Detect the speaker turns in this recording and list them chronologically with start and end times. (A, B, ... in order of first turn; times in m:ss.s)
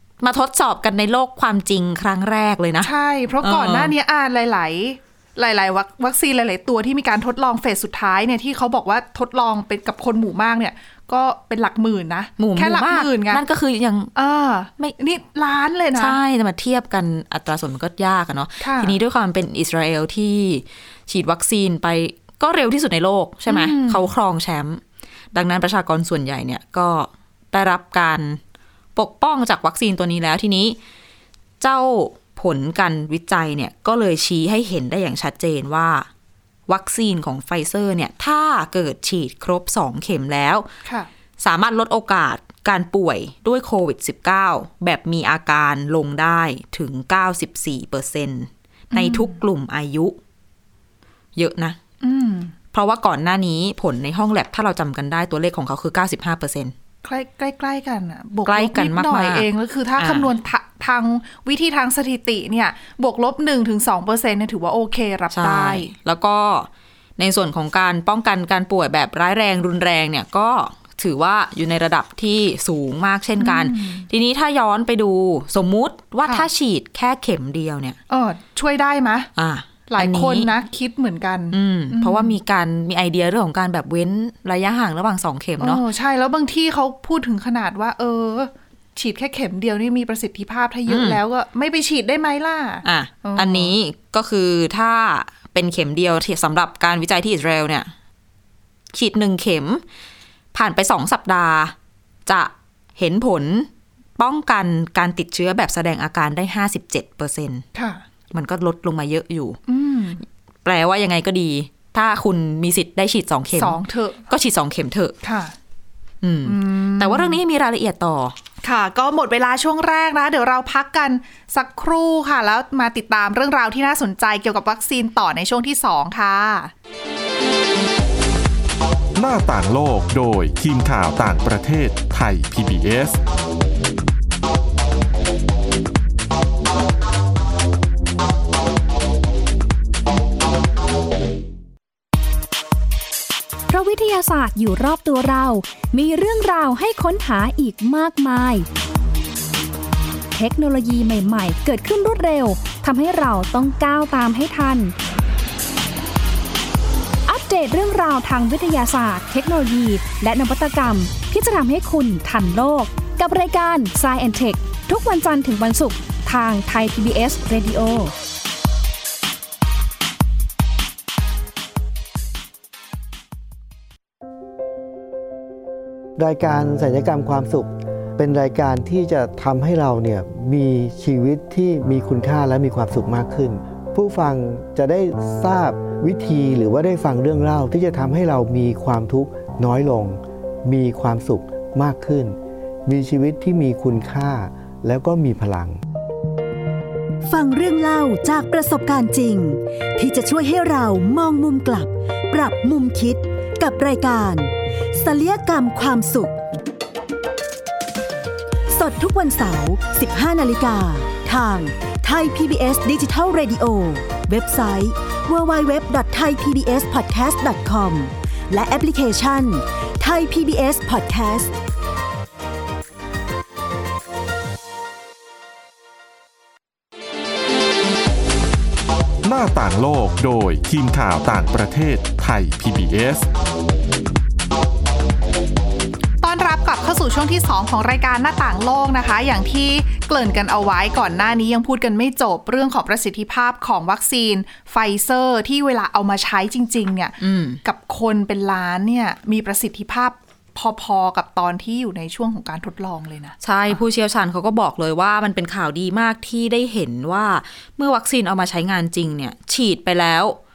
0:00.2-0:02.9 A
0:02.8-0:13.4 B
0:03.4-0:03.9 A
0:12.4-0:14.1 A
0:14.1-0:16.2 B
0:16.0-0:24.8 A
0:18.6-0:19.0 B
0:23.5-0:24.1 B
0:25.3-0:28.4 A
0:28.9-0:30.8 A
0:31.6-0:36.1 A
0:36.7-0:40.7 A
0:41.4-0:50.2 A
0:48.9-0:49.4 B
0:51.4-0:51.8 A
0:52.0-0:52.5 B
0:52.7-0:56.7 A
0:57.0-1:05.9 B
0:58.4-0:59.4 A
1:00.0-1:00.3 A
1:05.3-1:18.0 A
1:13.4-1:14.1 B
1:18.1-1:19.3 B
1:19.4-1:20.5 A
1:19.9-1:22.4 B
1:21.5-1:25.8 A
1:25.6-1:33.7 B
1:30.9-1:31.2 A
1:32.8-1:37.9 A
1:38.9-1:39.8 A
1:40.5-1:41.7 A
1:42.2-1:47.6 A
1:47.7-1:48.0 B
1:48.3-1:49.6 A
1:49.7-1:50.2 B
1:50.6-1:53.8 A
1:53.5-1:54.3 B
1:54.3-1:55.1 A
1:55.2-1:55.5 B
1:56.2-1:58.4 A
1:56.4-1:57.4 B
1:58.6-2:06.7 B
2:09.2-2:13.2 C
2:23.7-2:28.6 D
2:30.3-2:34.9 D
2:37.2-2:48.1 D
2:56.2-3:15.8 E
3:17.3-3:26.4 F
3:28.7-3:41.5 F
3:49.2-3:53.3 C
3:56.2-4:13.8 B
4:07.2-4:07.6 A
4:13.4-4:20.4 A